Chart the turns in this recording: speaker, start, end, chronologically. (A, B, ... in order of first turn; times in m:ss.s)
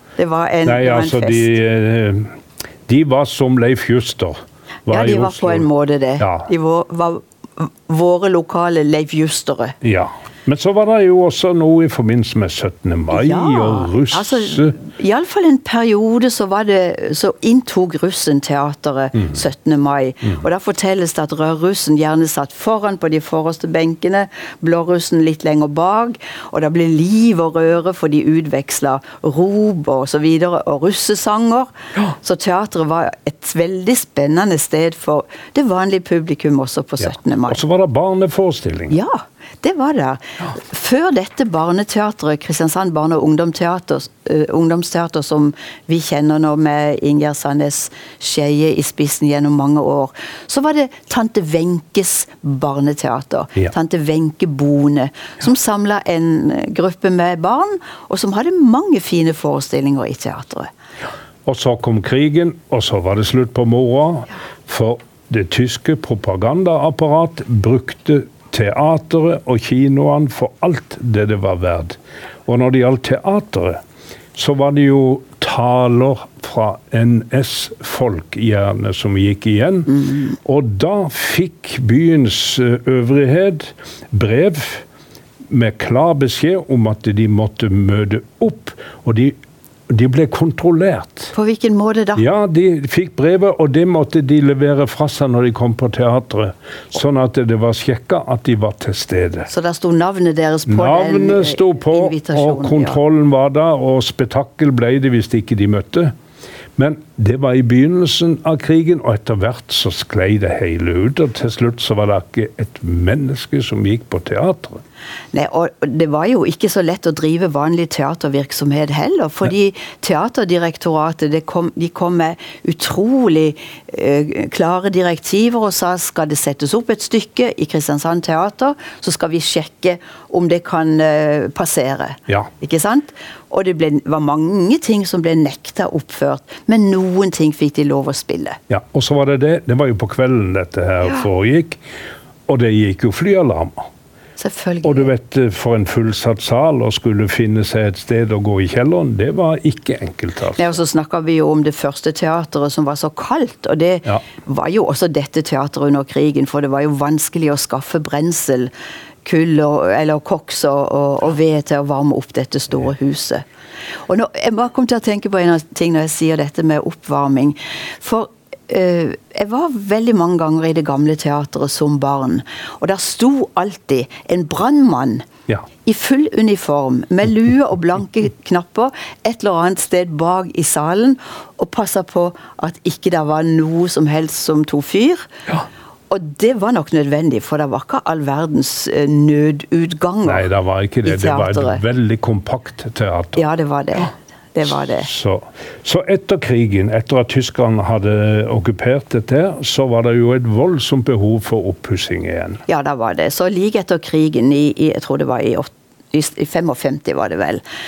0:00.2-0:01.5 A
0:00.6-0:05.7 B
0:04.9-0:09.8 A
0:06.2-0:06.5 B
0:09.8-0:14.8 B
0:13.1-0:37.6 A
0:37.0-0:39.0 B
0:38.9-1:00.7 A
1:01.4-1:13.8 B
1:14.4-1:24.8 B
1:25.5-1:29.4 B
1:29.9-1:31.3 B
1:31.3-1:32.2 A
1:32.2-1:39.5 B
1:39.5-1:43.0 A
1:40.7-1:46.1 B
1:46.8-1:54.8 B
1:55.3-2:18.6 A
2:18.7-2:21.8 B
2:22.5-2:23.9 B
2:24.4-2:25.1 A
2:24.8-2:30.8 B
2:30.6-2:38.7 A
2:39.2-2:43.4 A
2:44.1-2:55.3 A
2:55.8-3:05.3 A
3:06.1-3:10.5 A
3:10.2-3:13.4 B
3:11.1-3:11.8 A
3:13.4-3:15.1 A
3:14.9-3:22.6 B
3:22.7-3:27.6 A